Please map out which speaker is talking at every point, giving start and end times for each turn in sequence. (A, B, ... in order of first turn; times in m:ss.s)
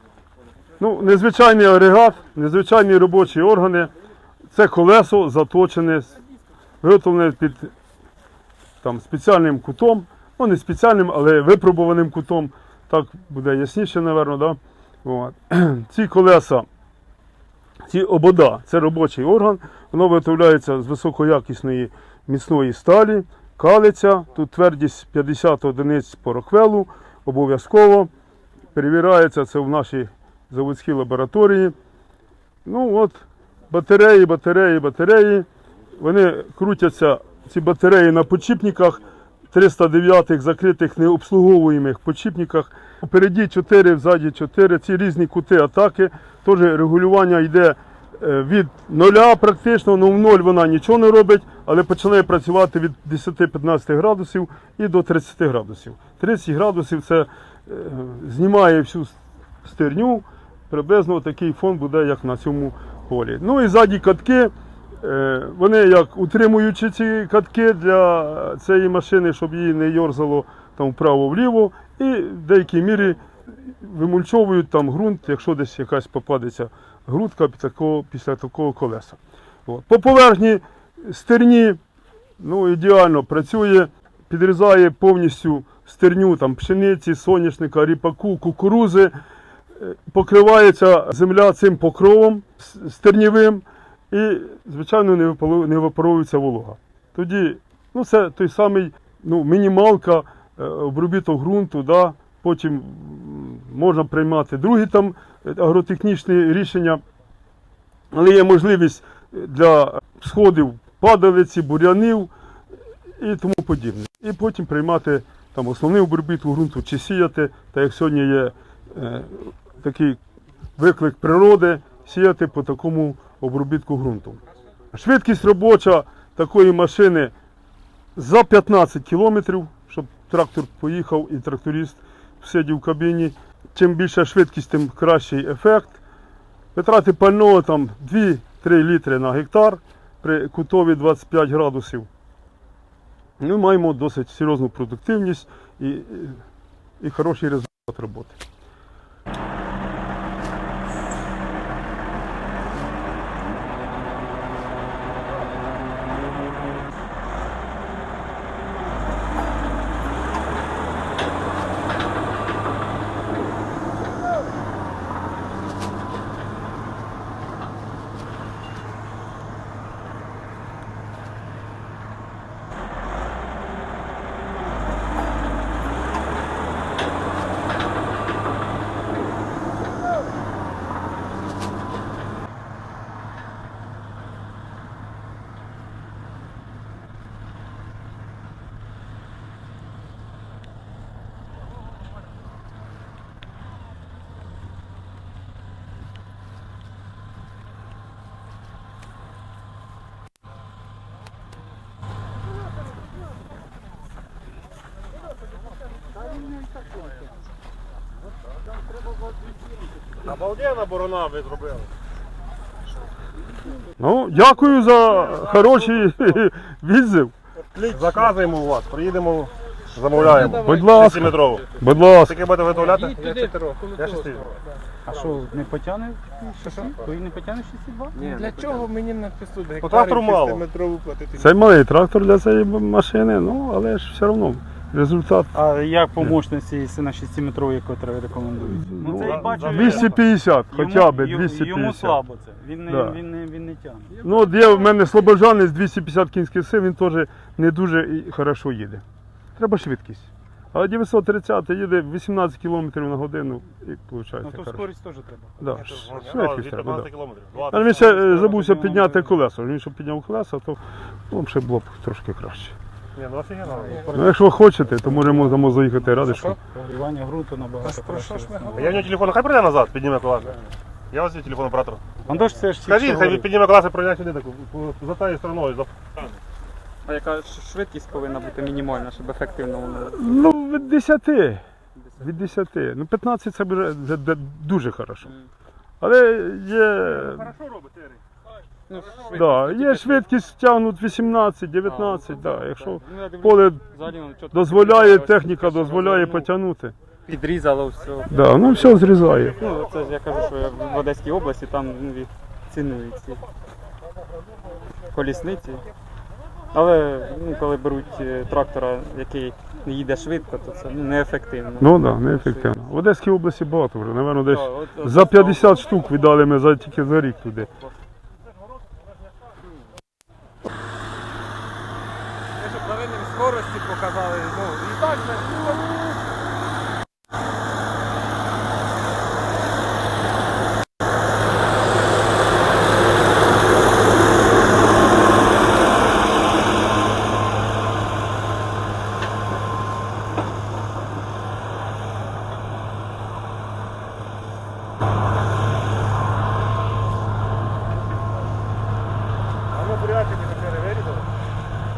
0:00.8-0:03.9 A
0:04.5-0:06.2 A
0:06.8-0:07.7 A
0:08.8-0:16.6 A
0:17.9-0:28.1 A
0:28.7-0:31.7 A
0:32.6-1:21.8 A
1:22.4-1:29.1 A
1:29.7-1:47.0 A
1:48.1-1:52.3 A
1:53.2-2:00.2 A
2:00.8-2:04.4 A
2:04.9-2:07.3 A
2:08.2-2:16.0 A
2:16.7-2:22.1 A
2:23.4-2:26.4 A
2:27.0-2:28.4 A
3:30.2-3:31.9 B
3:34.0-3:37.3 A
3:37.7-3:41.7 B
3:40.2-3:42.4 A
3:40.4-3:40.8 C
3:42.2-3:44.5 B
3:42.9-3:44.3 C
3:45.2-3:48.4 D
3:46.6-3:47.2 C
3:48.1-3:51.5 C
3:48.2-3:48.8 E
3:49.8-3:50.7 B
3:51.4-3:55.6 A
3:55.8-3:59.3 D
3:58.6-4:02.2 A
3:59.2-4:00.2 B
4:02.9-4:03.2 A
4:03.6-4:04.0 D
4:04.2-4:09.0 A
4:09.6-4:14.9 A
4:15.2-4:15.5 D
4:15.6-4:17.1 A
4:15.8-4:18.8 B
4:17.7-4:22.8 A
4:23.1-4:24.2 B
4:23.7-4:24.2 D
4:24.1-4:26.6 A
4:26.8-4:29.0 D
4:27.8-4:28.9 C
4:27.8-4:28.8 E
4:28.7-4:30.6 B
4:31.1-4:32.0 B
4:32.3-4:33.4 D
4:32.7-4:35.9 B
4:37.0-4:40.7 E
4:40.0-4:41.6 A
4:42.2-4:45.3 A
4:45.2-4:45.5 E
4:46.0-4:47.5 A
4:47.5-4:48.1 B
4:48.9-4:50.2 E
4:49.3-4:53.9 A
4:51.8-4:56.5 E
4:54.5-4:56.9 A
4:57.2-5:03.4 E
4:58.3-4:59.6 A
5:05.1-5:05.8 E
5:06.7-5:12.7 E
5:11.8-5:17.7 A
5:14.5-5:15.9 E
5:23.2-5:24.6 E
5:25.0-5:25.6 C
5:49.7-5:51.2 B